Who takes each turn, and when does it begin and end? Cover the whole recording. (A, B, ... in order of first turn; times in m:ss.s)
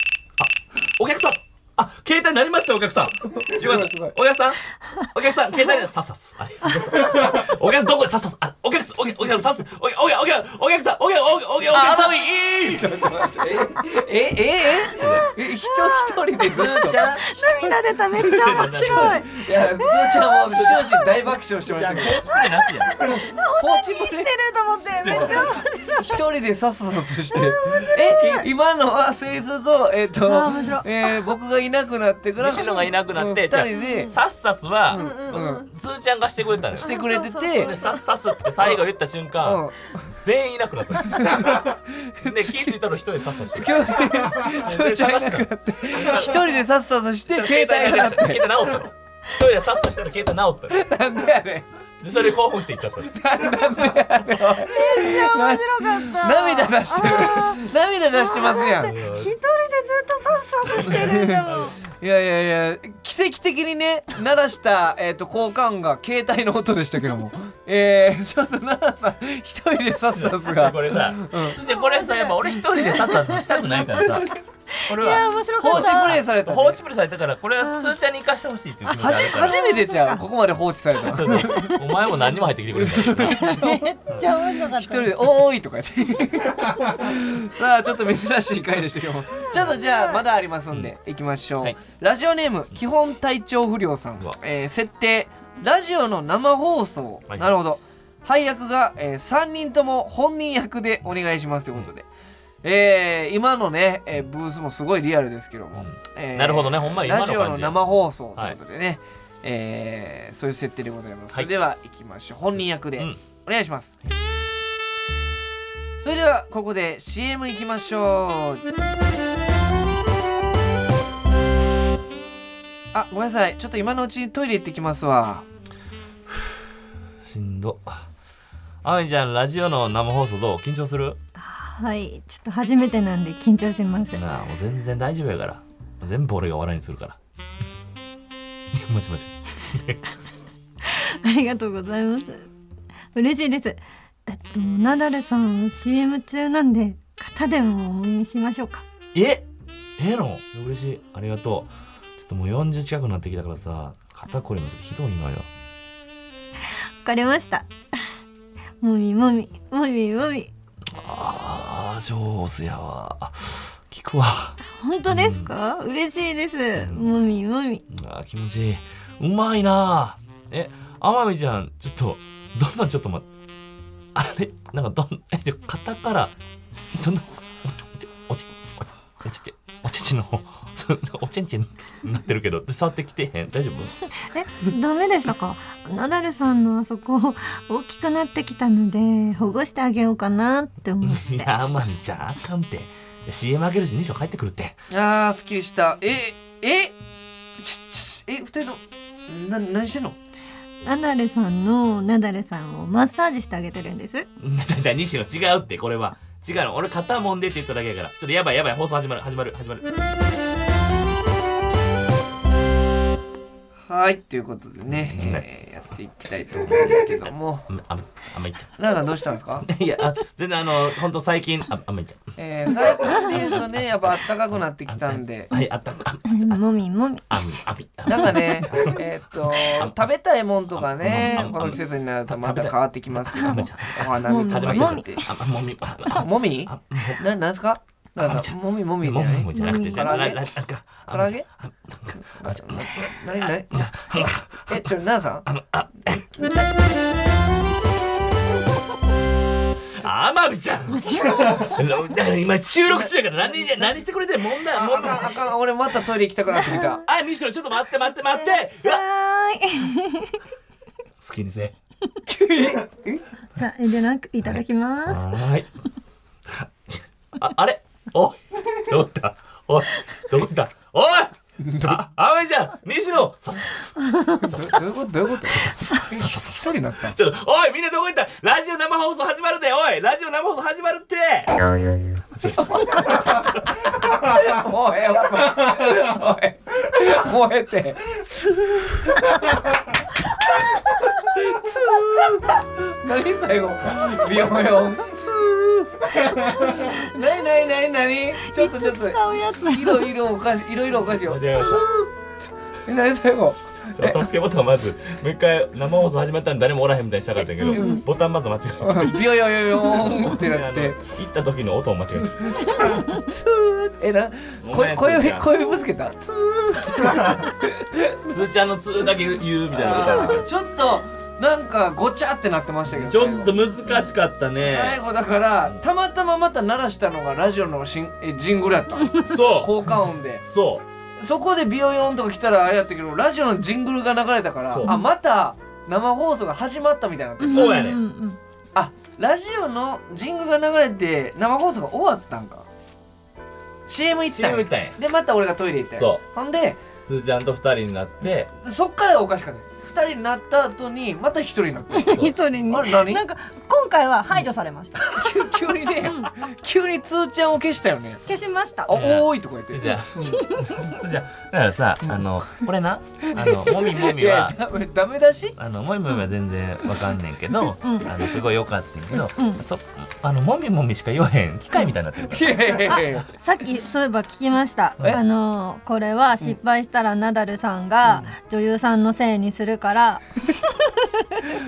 0:00.4-0:12.9 A
0:03.3-0:04.1 B
0:11.7-0:17.7 B
0:14.9-0:15.3 A
0:15.0-0:21.1 C
0:16.4-0:17.2 A
0:18.2-0:19.2 A
0:18.4-0:22.2 B
0:21.7-0:23.0 A
0:22.3-0:26.0 C
0:23.6-0:24.3 B
0:25.0-0:25.7 A
0:25.0-0:34.2 B
0:27.4-0:28.4 C
0:28.2-0:28.4 A
0:30.2-0:31.2 C
0:32.4-0:37.0 A
0:33.7-0:34.1 C
0:34.9-0:35.7 B
0:34.9-0:35.6 C
0:36.7-0:37.7 B
0:36.8-0:38.0 C
0:37.5-0:41.6 A
0:39.4-0:40.1 B
0:41.1-0:42.8 B
0:42.2-0:46.6 A
0:43.5-0:48.8 B
0:47.3-0:50.9 A
0:50.7-0:51.6 B
0:52.0-0:53.2 A
0:53.1-0:59.0 B
0:54.6-1:01.8 C
0:58.8-0:59.3 A
1:00.6-1:01.8 A
1:00.8-1:11.6 B
1:10.1-1:14.3 A
1:11.7-1:13.6 C
1:14.7-1:16.2 C
1:14.9-1:19.6 A
1:15.6-1:16.8 B
1:17.6-1:17.9 C
1:19.0-1:21.8 B
1:19.3-1:20.2 C
1:21.0-1:23.5 A
1:21.3-1:21.8 C
1:22.7-1:23.9 B
1:23.3-1:25.1 C
1:24.6-1:42.0 B
1:29.9-1:30.1 C
1:42.6-1:54.0 B
1:45.8-1:47.8 A
1:56.0-1:58.6 B
2:02.9-2:05.4 B
2:06.3-2:06.6 A
2:07.2-2:08.1 A
2:08.8-2:11.2 A
2:11.4-2:14.2 C
2:14.1-2:17.2 A
2:18.7-2:20.0 A
2:20.8-2:22.5 C
2:23.1-2:28.8 C
2:29.1-2:29.4 A
2:30.0-2:35.5 A
2:37.0-2:37.7 C
2:38.8-2:40.5 C
2:40.9-2:45.5 A
2:44.6-2:47.8 C
2:46.8-2:47.1 A
2:47.9-2:53.3 A
2:54.1-2:56.3 A
2:56.9-3:03.9 A
3:04.2-3:11.5 C
3:11.0-3:14.8 A
3:14.9-3:17.0 B
3:17.6-3:20.2 B
3:20.8-3:24.3 C
3:24.4-3:30.0 A
3:33.9-3:37.7 B
3:34.9-3:35.4 A
3:36.6-3:38.7 A
3:38.8-3:39.7 B
3:39.6-3:42.2 A
3:42.4-3:45.5 B
3:42.7-3:46.6 A
3:46.3-3:47.4 C
3:47.3-3:50.0 A
3:48.1-3:55.3 B
3:48.1-3:48.8 C
3:50.7-3:57.2 A
3:53.4-3:53.6 C
3:54.2-3:55.3 C
3:56.1-4:00.4 B
3:58.2-4:04.9 A
3:59.5-4:00.3 C
4:01.1-4:01.5 B
4:02.3-4:03.9 B
4:04.7-4:05.5 B
4:05.5-4:06.6 A
4:09.9-4:15.4 A
4:14.7-4:17.0 B
4:17.0-4:19.0 A
4:18.4-4:20.4 C
4:21.2-4:21.7 A
4:22.3-4:23.2 B
4:23.5-4:25.3 C
4:24.4-4:25.7 A
4:26.5-4:34.9 A
4:31.6-4:32.0 B
4:34.0-4:34.5 C
4:34.4-4:37.2 B
4:35.4-4:41.6 A
4:35.8-4:36.1 C
4:42.3-4:43.5 A
4:42.6-4:43.5 B
4:44.2-5:02.1 B
4:56.7-4:57.1 C
4:58.4-5:00.1 C
5:01.2-5:01.9 A
5:02.8-5:04.2 B
5:04.0-5:09.2 A
5:07.6-5:08.0 C
5:07.7-5:08.0 B
5:08.8-5:11.0 B
5:09.9-5:12.7 A
5:12.3-5:18.3 B
5:14.6-5:15.5 A
5:18.3-5:20.5 A
5:19.7-5:23.5 B
5:22.9-5:25.0 A
5:24.6-5:30.4 B
5:29.3-5:29.8 A
5:30.4-5:30.8 A
5:31.2-5:37.8 B
5:34.7-5:35.0 A
5:37.4-5:38.4 C
5:37.5-5:38.0 A
5:38.7-5:42.7 B
5:43.9-5:46.8 B
5:44.3-5:45.0 A
5:46.0-5:46.2 A
5:47.0-5:48.5 A
5:48.6-5:53.2 B
5:51.9-5:55.2 C
5:52.0-5:52.3 A
5:55.0-5:58.2 B
5:56.0-5:56.3 C
5:58.2-5:58.9 C
5:58.9-6:00.5 B
5:58.9-6:04.6 A
6:00.3-6:00.7 C
6:03.3-6:05.5 B
6:05.6-6:13.2 A
6:07.8-6:08.1 C
6:09.4-6:09.6 C
6:12.3-6:13.3 B
6:13.3-6:21.5 C